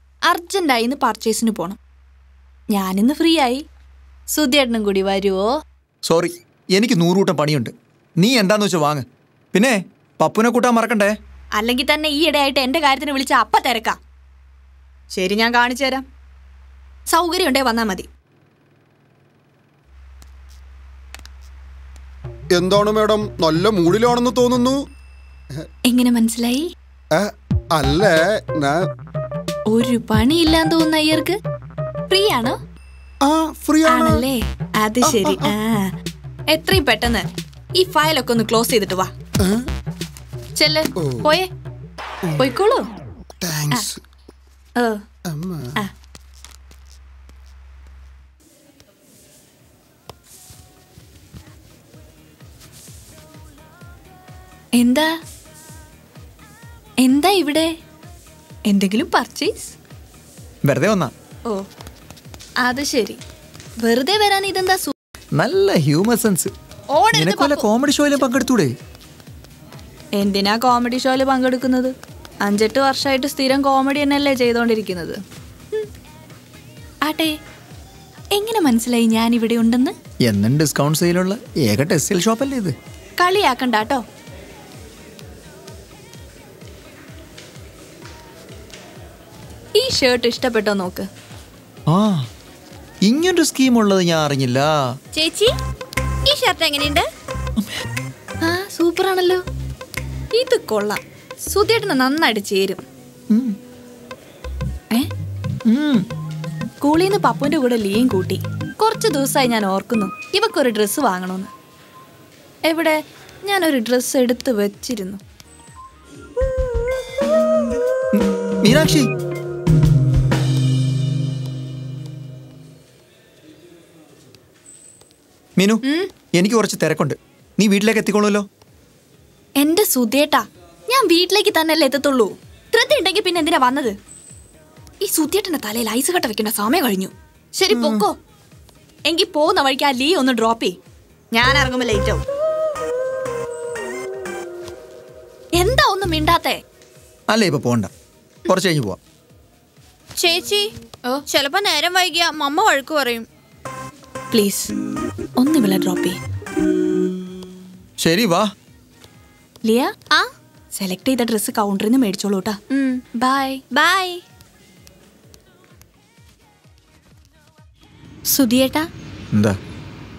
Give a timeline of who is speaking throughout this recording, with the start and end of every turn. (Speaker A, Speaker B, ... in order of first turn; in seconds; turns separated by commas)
Speaker A: 0.3-1.8, Speaker A: 2.7-3.6, Speaker A: 4.3-5.4, Speaker B: 6.1-11.1, Speaker A: 11.6-14.0, Speaker A: 15.1-16.0, Speaker A: 17.1-18.1, Speaker C: 22.6-24.8, Speaker A: 25.9-26.7, Speaker C: 27.1-28.8, Speaker A: 29.7-31.4, Speaker A: 32.1-32.6, Speaker C: 33.2-34.2, Speaker A: 33.8-35.9, Speaker C: 35.1-35.5, Speaker A: 36.5-37.2, Speaker A: 37.8-39.1, Speaker A: 40.6-41.5, Speaker A: 42.4-42.9, Speaker C: 43.4-44.0, Speaker C: 45.3-45.7, Speaker A: 54.8-55.1, Speaker A: 57.0-57.7, Speaker A: 58.7-59.7, Speaker B: 60.6-61.1, Speaker A: 62.6-63.2, Speaker A: 63.8-64.9, Speaker B: 65.4-66.5, Speaker D: 67.0-67.6, Speaker B: 67.1-68.7, Speaker A: 70.2-75.2, Speaker A: 77.0-77.3, Speaker A: 78.3-79.9, Speaker B: 80.2-82.7, Speaker A: 83.2-84.0, Speaker A: 89.7-91.1, Speaker B: 91.9-92.2, Speaker B: 93.0-94.7, Speaker D: 95.1-95.5, Speaker D: 96.2-97.0, Speaker A: 98.4-99.4, Speaker A: 100.3-102.8, Speaker B: 105.7-106.0, Speaker A: 106.8-111.5, Speaker A: 112.7-115.2, Speaker B: 118.1-119.1, Speaker B: 126.3-128.4, Speaker A: 129.6-133.9, Speaker A: 135.0-138.1, Speaker B: 137.7-138.0, Speaker A: 139.1-140.7, Speaker A: 141.3-142.2, Speaker A: 145.6-146.6, Speaker B: 147.3-147.9, Speaker B: 148.5-149.0, Speaker D: 150.2-150.7, Speaker D: 151.3-153.2, Speaker A: 154.3-154.7, Speaker A: 155.4-156.2, Speaker B: 158.0-158.5, Speaker A: 159.6-159.9, Speaker A: 160.8-162.6, Speaker D: 162.7-163.0, Speaker A: 163.2-163.6, Speaker D: 163.7-164.2, Speaker D: 168.3-168.9